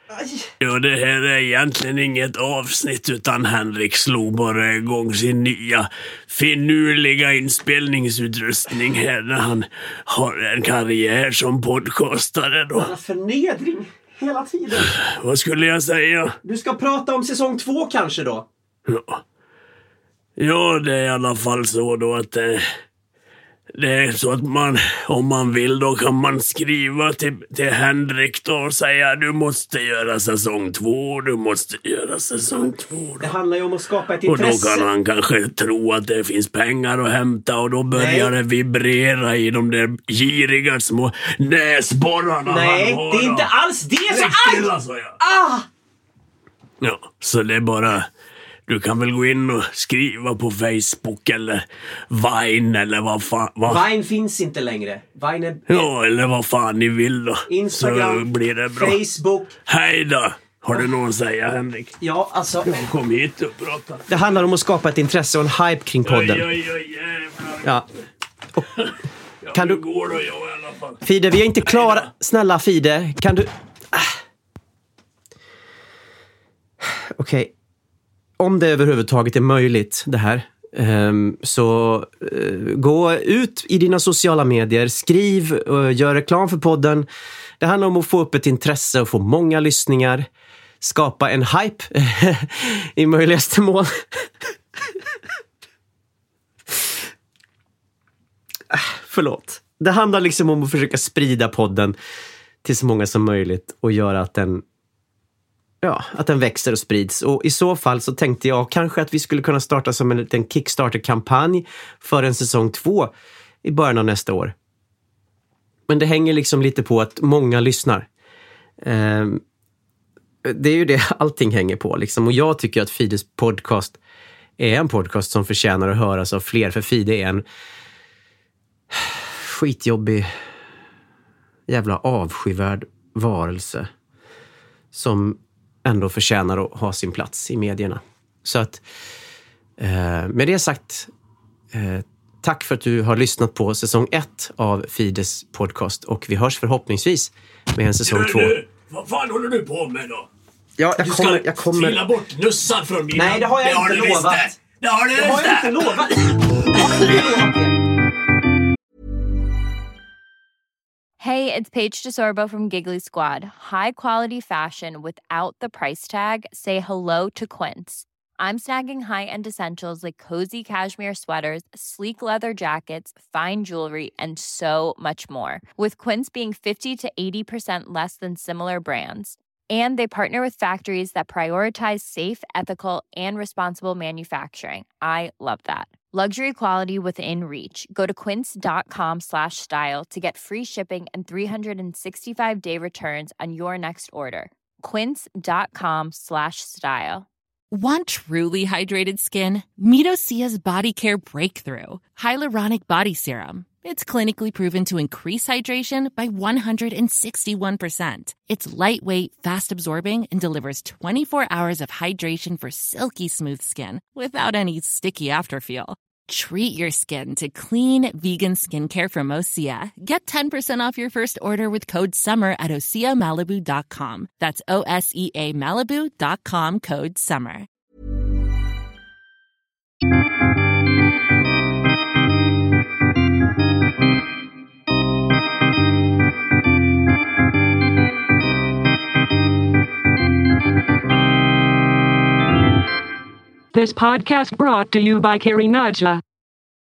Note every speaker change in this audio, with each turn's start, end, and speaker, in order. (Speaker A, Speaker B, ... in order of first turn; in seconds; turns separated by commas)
Speaker A: 0.1-0.5, Speaker B: 0.6-12.9, Speaker A: 12.8-14.9, Speaker B: 14.8-16.3, Speaker A: 16.4-18.5, Speaker B: 18.9-19.2, Speaker B: 20.4-22.6, Speaker B: 23.8-33.4, Speaker A: 33.2-34.9, Speaker B: 34.3-43.5, Speaker A: 37.9-38.3, Speaker A: 42.5-45.7, Speaker B: 44.1-45.1, Speaker B: 46.8-48.1, Speaker B: 48.7-53.8, Speaker A: 53.7-55.9, Speaker B: 55.7-59.0, Speaker A: 57.5-59.5, Speaker B: 59.7-61.9, Speaker A: 62.0-62.8, Speaker B: 62.6-64.4, Speaker A: 64.1-66.5, Speaker B: 66.0-67.8, Speaker B: 68.8-71.0, Speaker A: 69.5-69.8, Speaker A: 71.0-74.1, Speaker B: 71.7-72.1, Speaker A: 76.8-77.5, Speaker A: 78.4-87.1, Speaker A: 87.6-90.3, Speaker A: 90.8-93.9, Speaker A: 98.7-102.0, Speaker A: 102.6-104.6, Speaker A: 105.8-113.1, Speaker A: 113.6-114.5, Speaker A: 115.9-118.1, Speaker A: 118.8-119.4, Speaker A: 120.5-124.0, Speaker A: 124.6-127.5, Speaker A: 128.9-130.3, Speaker A: 131.7-133.9, Speaker A: 134.9-138.8, Speaker A: 139.8-141.1, Speaker A: 141.7-148.6, Speaker B: 148.0-150.3, Speaker A: 150.8-152.0, Speaker B: 151.0-157.5, Speaker A: 153.1-154.6, Speaker A: 155.2-157.8, Speaker C: 161.2-197.3, Speaker D: 197.7-227.7, Speaker E: 243.8-246.1